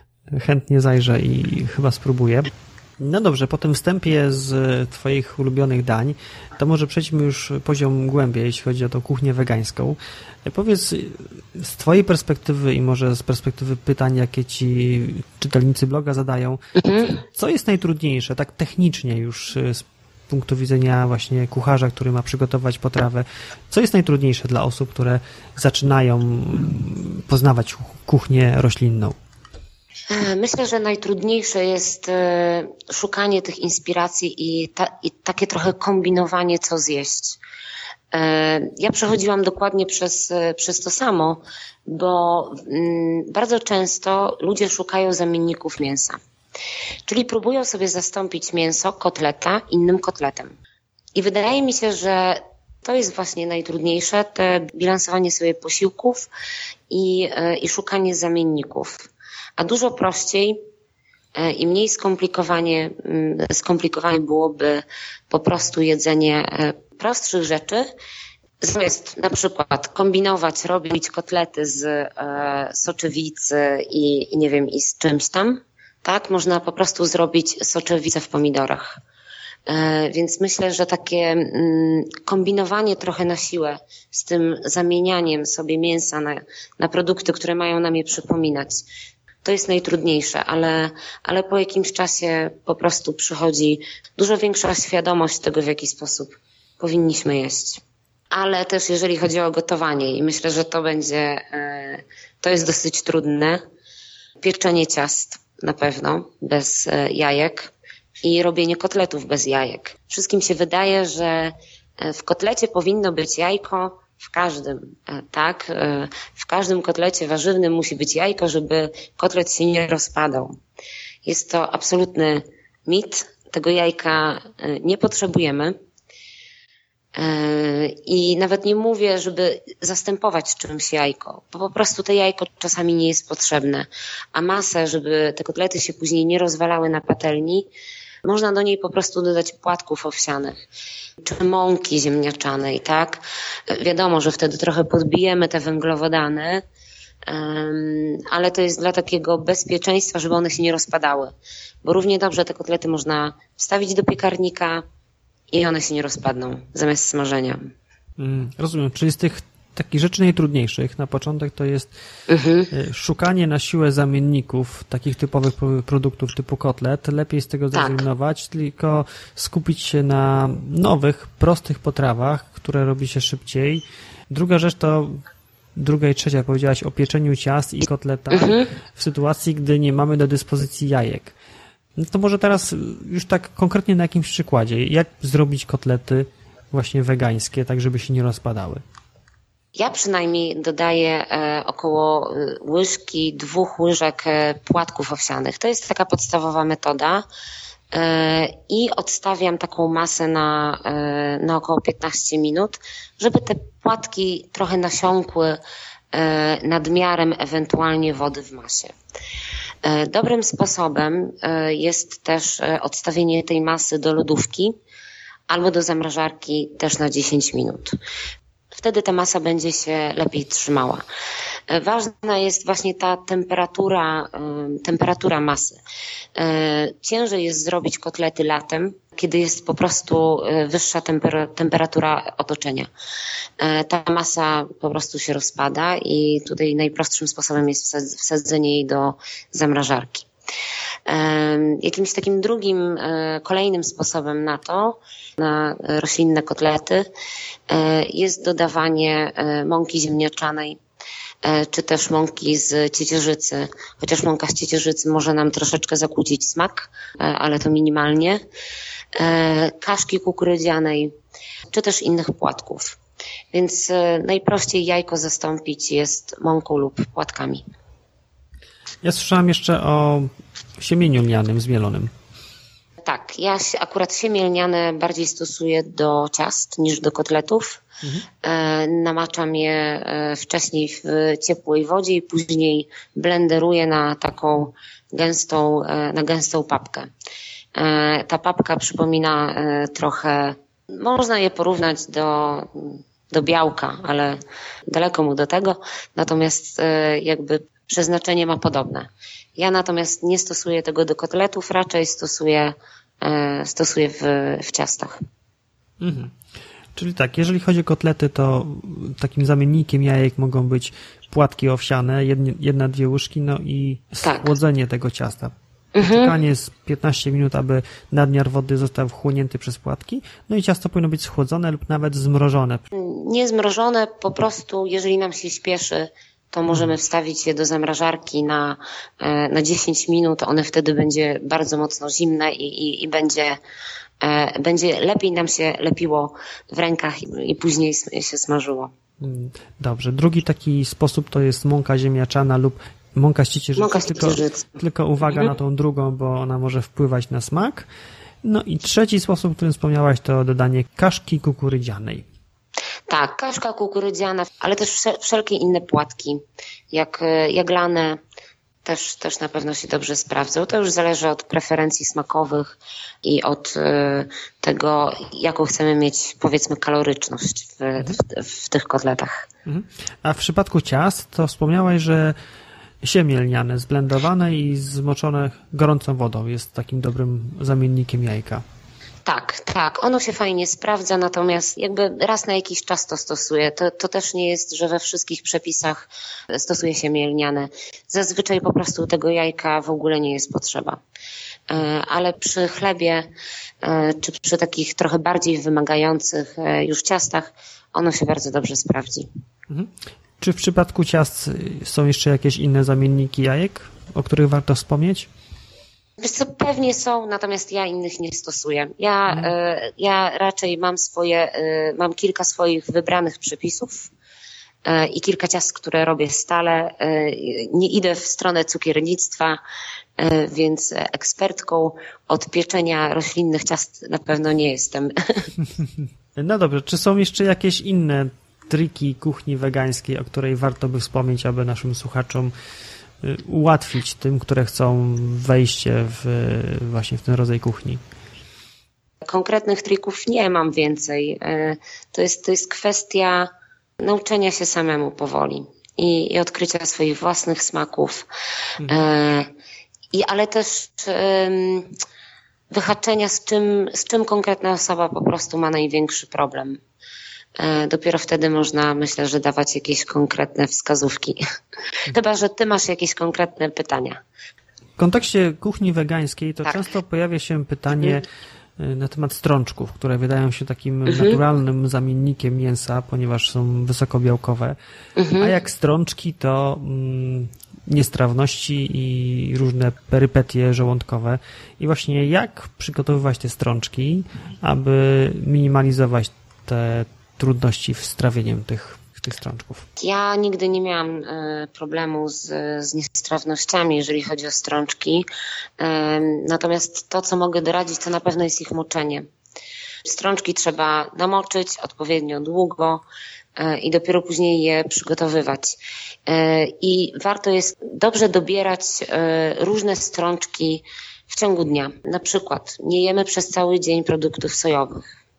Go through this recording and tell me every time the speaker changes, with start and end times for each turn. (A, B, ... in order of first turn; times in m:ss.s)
0:00.3-0:29.2 A
0:16.8-0:17.2 B
0:30.1-0:37.4 B
0:38.1-0:46.2 B
0:47.1-0:50.5 B
0:51.1-0:56.3 B
0:56.9-1:00.6 B
1:01.4-1:07.8 B
1:08.6-1:19.0 B
1:19.7-1:28.8 B
1:29.4-1:43.6 B
1:44.4-2:00.5 B
2:01.2-2:05.7 B
2:07.1-2:17.7 B
2:18.2-2:20.6 B
2:21.2-2:26.6 B
2:27.3-2:34.8 B
2:35.5-2:37.7 B
2:38.2-2:41.9 A
2:42.3-2:42.7 B
2:42.7-2:55.2 A
2:47.7-2:48.0 B
2:55.8-3:01.3 A
2:58.3-2:58.7 B
3:02.0-3:08.8 A
3:09.7-3:17.2 B
3:17.9-3:25.6 B
3:26.1-3:28.9 B
3:29.8-3:34.7 B
3:35.5-3:38.0 B
3:38.7-3:41.0 B
3:41.7-3:45.8 B
3:46.3-3:52.9 B
3:53.6-4:00.3 B
4:01.1-4:07.0 B
4:07.7-4:10.8 B
4:11.4-4:18.4 B
4:19.1-4:21.1 B
4:21.7-4:23.0 B
4:23.5-4:27.6 B
4:29.0-4:32.1 A
4:33.0-4:37.8 B
4:38.4-4:47.1 B
4:47.7-4:54.4 B
4:54.9-5:05.2 B
5:06.0-5:06.3 A
5:06.9-5:22.8 A
5:14.2-5:14.5 B
5:15.9-5:16.3 B
5:22.9-5:33.6 B
5:34.2-5:38.9 B
5:39.2-5:47.9 A
5:43.8-5:44.7 B
5:45.2-5:45.5 B
5:48.4-5:52.2 A
5:53.1-5:58.2 B
5:58.8-6:09.5 B
6:09.6-6:12.4 A
6:13.0-6:18.6 A
6:19.2-6:31.0 B
6:31.7-6:33.2 B
6:33.8-6:39.3 B
6:39.7-6:45.3 A
6:46.2-6:54.1 B
6:49.3-6:49.5 A
6:54.8-6:59.6 B
7:00.2-7:05.5 B
7:06.4-7:12.5 A
7:13.2-7:18.0 A
7:19.2-7:28.3 B
7:28.8-7:29.0 A
7:28.8-7:29.5 B
7:30.1-7:32.0 B
7:32.7-7:36.8 B
7:37.6-7:41.4 B
7:42.1-7:44.2 B
7:45.0-7:48.2 A
7:48.8-7:54.8 A
7:51.1-7:51.4 B
7:55.2-7:55.5 B
7:55.4-8:09.9 A
8:10.0-8:15.2 B
8:15.8-8:19.2 B
8:20.0-8:23.0 B
8:23.6-8:35.0 B